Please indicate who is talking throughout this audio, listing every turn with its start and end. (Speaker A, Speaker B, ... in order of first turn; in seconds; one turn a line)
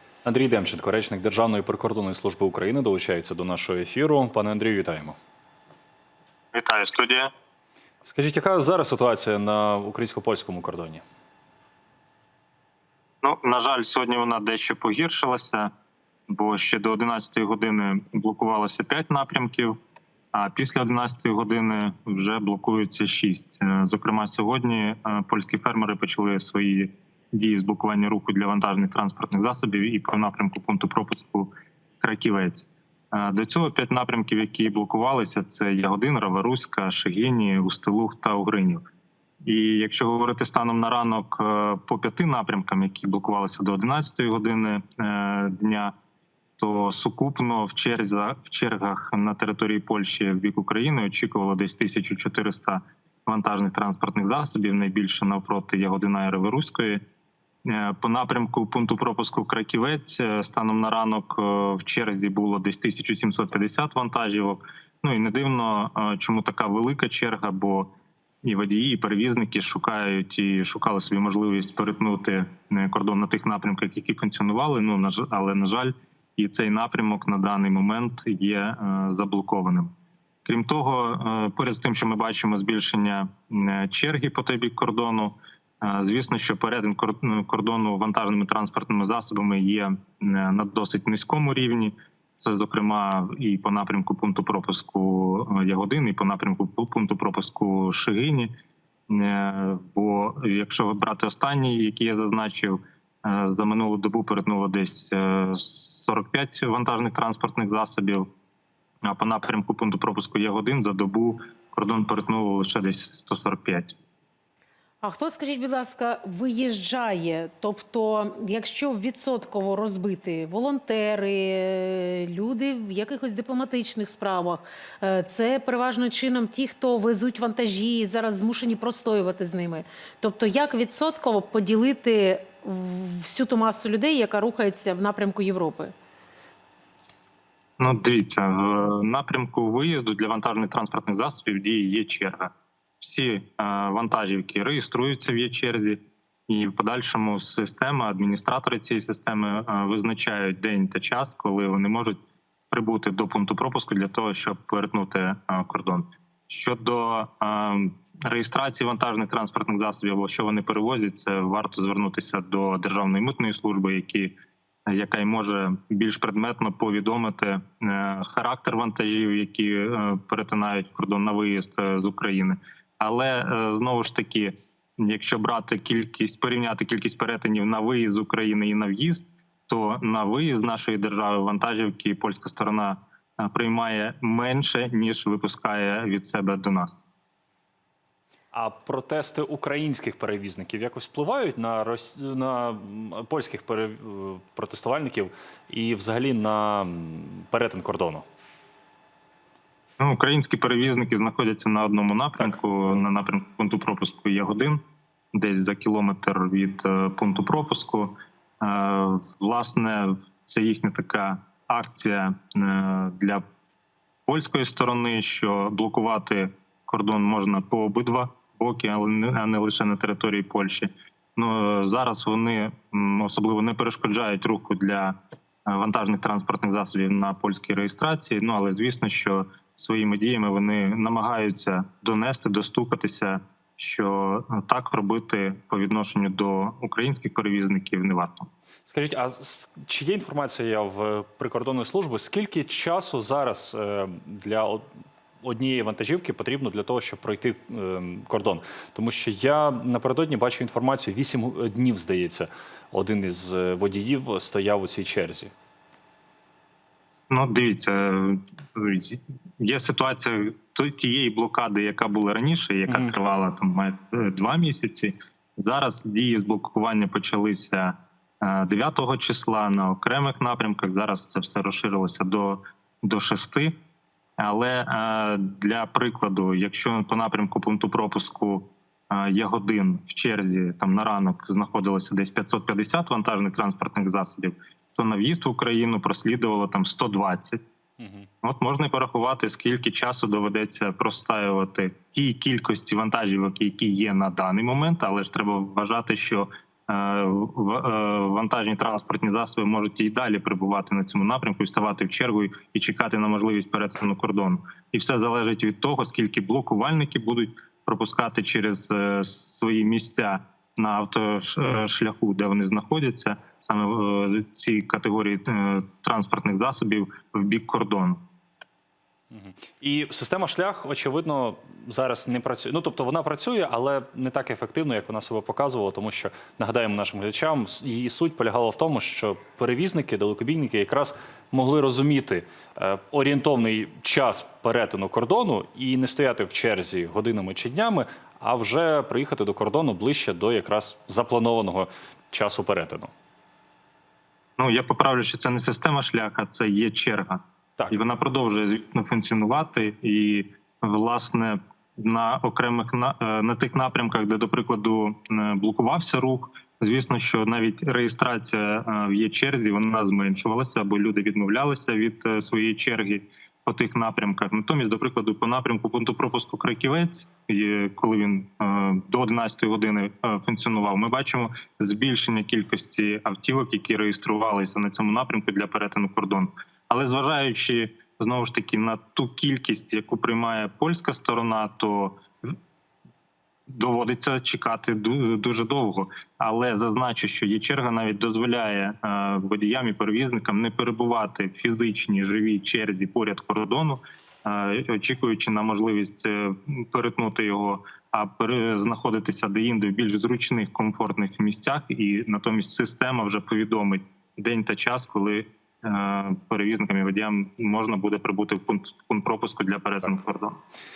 Speaker A: 0.2-5.2
Speaker B: 6.5-7.3
Speaker A: 8.0-11.0
Speaker B: 13.2-15.7
Speaker B: 16.3-19.7
Speaker B: 20.3-38.8
Speaker B: 39.4-45.9
Speaker B: 46.6-57.0
Speaker B: 57.6-67.9
Speaker B: 68.4-79.9
Speaker B: 80.4-98.5
Speaker B: 99.1-108.3
Speaker B: 109.0-113.9
Speaker C: 115.0-135.9
Speaker B: 137.8-152.2
Speaker B: 152.7-164.3
Speaker B: 164.9-187.0
Speaker A: 188.5-198.2
Speaker B: 200.0-204.8
Speaker B: 205.3-213.4
Speaker B: 214.2-225.2
Speaker B: 225.7-238.5
Speaker A: 238.9-244.8
Speaker A: 245.4-255.5
Speaker B: 257.3-273.8
Speaker A: 262.9-263.1
Speaker B: 274.4-287.6
Speaker A: 288.0-288.3
Speaker B: 288.4-318.2
Speaker A: 319.3-343.1
Speaker B: 344.6-382.5
Speaker B: 383.7-410.6